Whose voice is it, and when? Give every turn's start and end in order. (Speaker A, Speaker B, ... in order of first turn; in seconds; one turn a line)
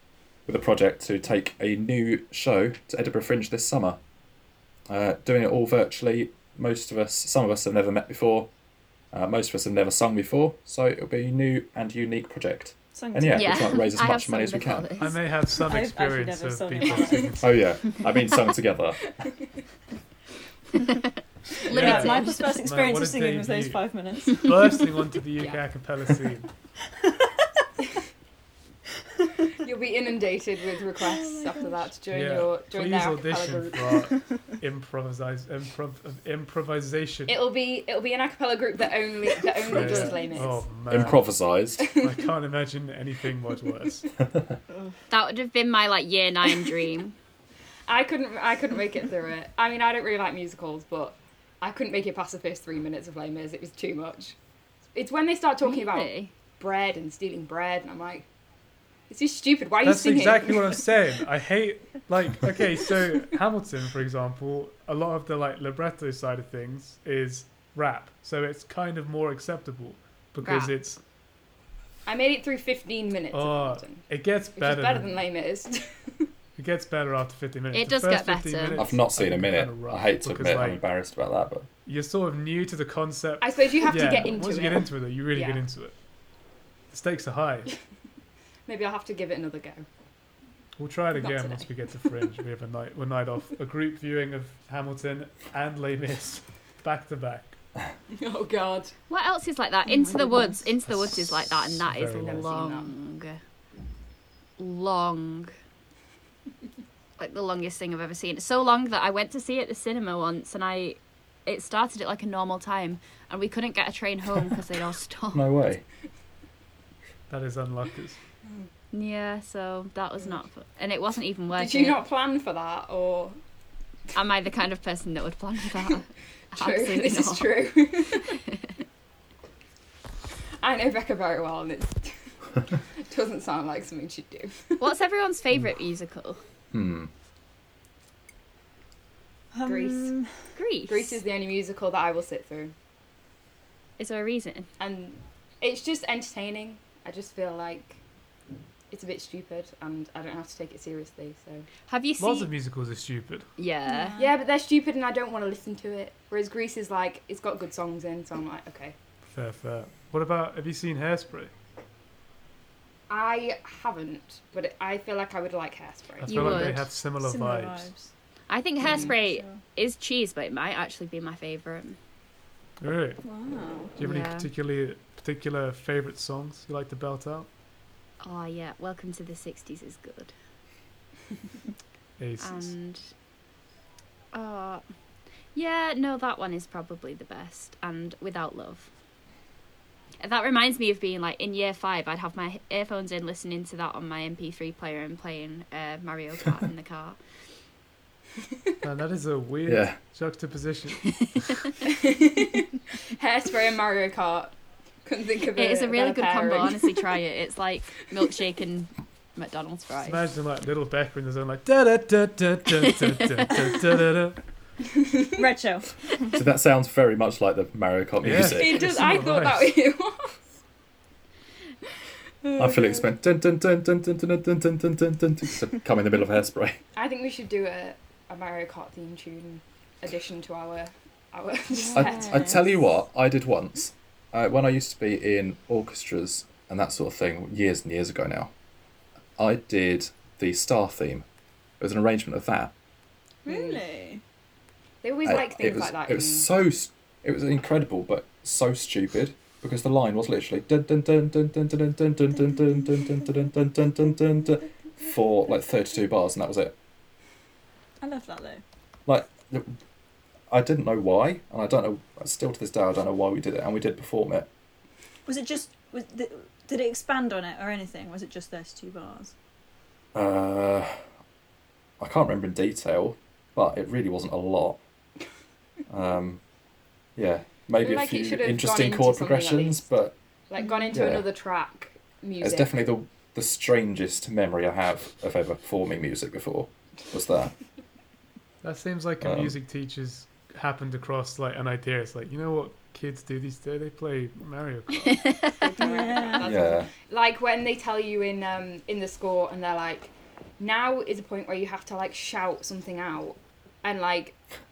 Speaker A: 0.5-4.0
Speaker A: 4.9-8.5
Speaker A: 9.1-14.9
Speaker B: 12.9-13.8
Speaker C: 13.3-15.1
Speaker D: 15.0-17.5
Speaker B: 15.5-17.4
Speaker E: 16.9-17.2
Speaker A: 17.4-19.1
Speaker C: 21.6-22.6
Speaker B: 21.7-24.6
Speaker D: 21.7-26.5
Speaker E: 29.5-34.0
Speaker B: 31.0-31.8
Speaker D: 32.1-37.4
Speaker E: 37.3-41.1
Speaker D: 39.7-41.3
Speaker B: 39.8-40.3
Speaker A: 40.9-41.9
Speaker E: 41.8-42.2
Speaker D: 42.0-44.1
Speaker C: 45.1-47.1
Speaker E: 47.9-54.4
Speaker E: 54.9-58.2
Speaker C: 55.6-56.3
Speaker E: 59.1-60.8
Speaker D: 59.8-71.0
Speaker C: 70.4-70.7
Speaker E: 72.0-74.0
Speaker D: 73.3-75.2
Speaker E: 74.6-76.3
Speaker D: 76.5-80.8
Speaker C: 77.7-78.8
Speaker A: 78.8-81.7
Speaker D: 81.8-85.9
Speaker E: 83.4-85.6
Speaker D: 86.9-87.7
Speaker E: 88.7-89.8
Speaker D: 90.8-97.5
Speaker E: 91.1-91.7
Speaker E: 98.1-98.9
Speaker C: 99.1-103.4
Speaker B: 99.9-100.6
Speaker D: 100.9-102.5
Speaker E: 102.2-102.9
Speaker C: 104.6-105.5
Speaker C: 107.2-115.5
Speaker A: 115.3-115.8
Speaker D: 117.3-118.2
Speaker C: 118.9-122.0
Speaker E: 121.5-123.4
Speaker C: 124.1-127.6
Speaker E: 126.5-128.4
Speaker E: 130.6-134.9
Speaker C: 134.8-136.4
Speaker A: 136.7-137.1
Speaker B: 139.5-140.3
Speaker E: 139.6-140.1
Speaker C: 140.5-141.2
Speaker E: 140.9-142.7
Speaker C: 144.0-144.7
Speaker E: 144.8-148.0
Speaker E: 148.9-151.7
Speaker C: 151.9-152.5
Speaker D: 152.2-153.5
Speaker C: 153.6-154.2
Speaker B: 153.9-154.3
Speaker E: 154.2-158.9
Speaker D: 159.3-161.5
Speaker E: 163.1-166.8
Speaker D: 166.2-167.9
Speaker C: 166.2-166.8
Speaker B: 167.2-168.1
Speaker C: 168.5-172.0
Speaker E: 168.8-169.1
Speaker B: 169.0-169.6
Speaker D: 172.8-173.2
Speaker B: 173.2-173.9
Speaker D: 174.0-177.5
Speaker C: 174.0-174.5
Speaker C: 178.2-180.3
Speaker D: 182.2-182.7
Speaker C: 182.4-183.0
Speaker C: 184.3-184.8
Speaker C: 185.5-188.9
Speaker C: 190.2-197.2
Speaker D: 198.8-201.7
Speaker A: 199.7-200.0
Speaker C: 201.2-201.7
Speaker E: 201.8-207.0
Speaker C: 205.6-210.2
Speaker D: 210.0-214.4
Speaker C: 212.9-213.5
Speaker B: 215.4-216.4
Speaker A: 216.3-218.8
Speaker D: 218.2-219.8
Speaker E: 218.4-220.3
Speaker E: 222.4-223.1
Speaker A: 222.6-226.8
Speaker E: 226.9-232.6
Speaker B: 231.7-232.7
Speaker A: 231.9-238.5
Speaker A: 239.4-241.2
Speaker A: 241.8-242.7
Speaker B: 243.4-244.2
Speaker E: 243.5-243.8
Speaker E: 245.0-246.5
Speaker A: 245.2-256.7
Speaker B: 258.0-258.6
Speaker A: 259.1-259.8
Speaker A: 260.5-264.5
Speaker B: 265.2-269.3
Speaker A: 270.1-271.0
Speaker A: 272.0-274.8
Speaker A: 275.9-276.4
Speaker A: 277.1-280.1
Speaker E: 277.8-279.9
Speaker E: 280.5-282.8
Speaker A: 280.9-281.3
Speaker A: 282.4-287.5
Speaker D: 288.6-295.3
Speaker A: 289.2-289.6
Speaker C: 295.0-295.6
Speaker E: 295.6-304.4
Speaker B: 295.8-296.5
Speaker A: 296.4-296.9